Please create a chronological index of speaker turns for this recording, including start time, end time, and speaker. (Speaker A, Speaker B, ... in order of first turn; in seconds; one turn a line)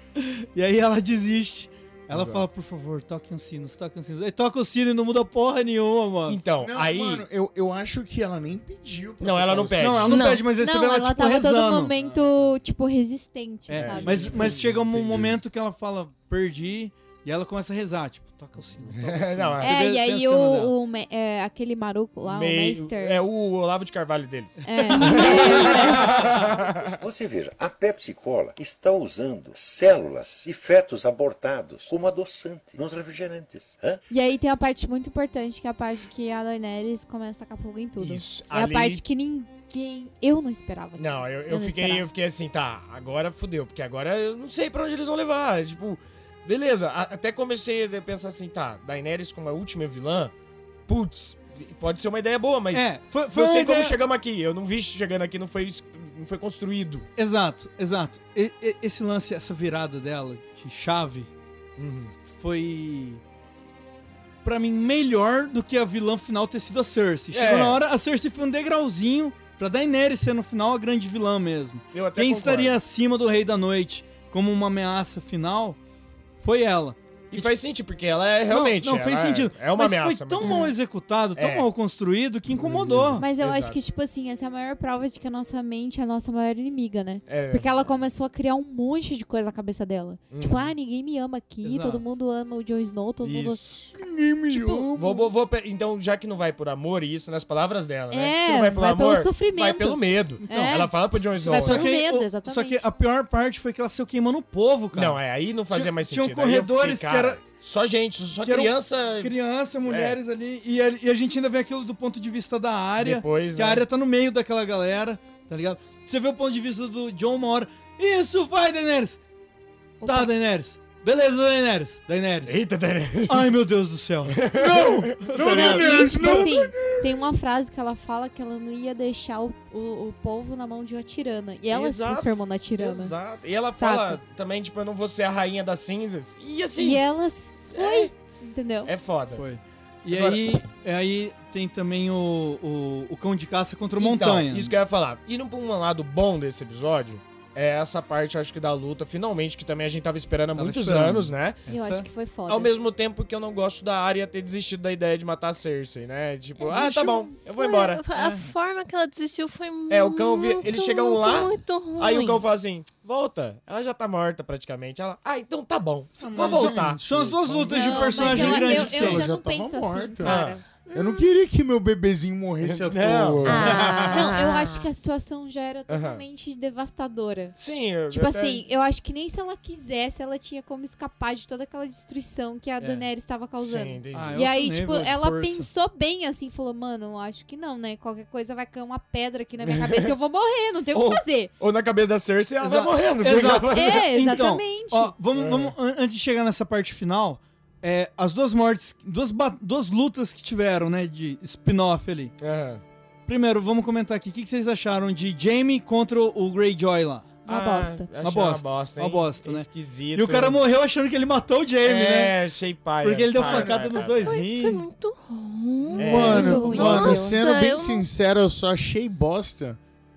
Speaker A: 0.1-6.4
Speaker B: 2.1-2.5
Speaker B: 6.3-7.2
Speaker C: 6.6-10.1
Speaker B: 9.2-10.1
Speaker A: 9.8-11.9
Speaker D: 10.1-10.4
Speaker E: 10.5-14.3
Speaker C: 11.9-12.6
Speaker A: 13.7-20.7
Speaker B: 13.8-14.6
Speaker C: 14.0-15.4
Speaker B: 18.9-19.8
Speaker E: 19.6-23.2
Speaker B: 22.2-27.0
Speaker E: 24.6-26.1
Speaker F: 27.0-34.0
Speaker E: 34.1-42.1
Speaker B: 38.0-39.0
Speaker B: 41.0-50.3
Speaker B: 50.9-57.0
Speaker A: 52.7-54.0
Speaker A: 57.2-61.3
Speaker B: 61.8-62.1
Speaker A: 62.2-63.2
Speaker A: 64.4-75.8
Speaker B: 67.3-67.8
Speaker B: 71.9-72.8
Speaker A: 76.4-77.5
Speaker B: 77.3-80.7
Speaker A: 78.5-83.2
Speaker B: 81.3-81.7
Speaker B: 82.6-83.8
Speaker E: 83.2-93.6
Speaker B: 87.3-87.8
Speaker B: 90.3-90.7
Speaker A: 91.6-92.0
Speaker B: 93.2-93.9
Speaker C: 94.0-95.3
Speaker E: 94.5-94.8
Speaker B: 94.9-101.9
Speaker E: 98.1-102.8
Speaker A: 100.4-100.8
Speaker A: 101.4-105.2
Speaker B: 104.9-109.3
Speaker A: 105.7-107.4
Speaker A: 108.4-119.2
Speaker B: 109.9-110.2
Speaker B: 113.0-113.8
Speaker E: 120.0-120.3
Speaker A: 120.0-122.6
Speaker B: 122.5-123.5
Speaker A: 123.3-124.4
Speaker B: 124.3-126.4
Speaker C: 124.5-127.2
Speaker A: 125.2-125.9
Speaker E: 125.5-133.2
Speaker B: 131.7-137.0
Speaker E: 133.7-134.2
Speaker E: 136.8-138.9
Speaker B: 137.7-138.1
Speaker B: 138.9-139.4
Speaker A: 139.3-144.7
Speaker B: 140.1-140.6
Speaker B: 144.0-151.6
Speaker A: 150.6-152.1
Speaker E: 151.7-152.7
Speaker B: 152.5-158.0
Speaker D: 156.6-162.4
Speaker A: 158.1-158.5
Speaker B: 159.9-168.4
Speaker C: 166.2-173.9
Speaker A: 166.4-169.2
Speaker E: 167.7-170.6
Speaker B: 170.2-170.6
Speaker B: 172.6-174.3
Speaker D: 173.5-174.9
Speaker E: 174.1-177.6
Speaker B: 175.9-176.2
Speaker B: 177.6-178.6
Speaker E: 178.1-191.5
Speaker A: 182.8-183.1
Speaker B: 183.6-184.4
Speaker A: 184.1-185.7
Speaker B: 189.7-190.1
Speaker B: 190.9-194.4
Speaker A: 192.6-202.3
Speaker E: 193.7-195.1
Speaker B: 195.3-195.7
Speaker B: 202.4-202.8
Speaker A: 203.3-207.3
Speaker E: 207.5-208.1
Speaker B: 207.5-210.6
Speaker A: 208.2-212.4
Speaker B: 211.8-214.4
Speaker A: 213.0-214.8
Speaker D: 214.2-218.1
Speaker C: 215.9-219.8
Speaker B: 216.0-216.8
Speaker E: 216.2-217.4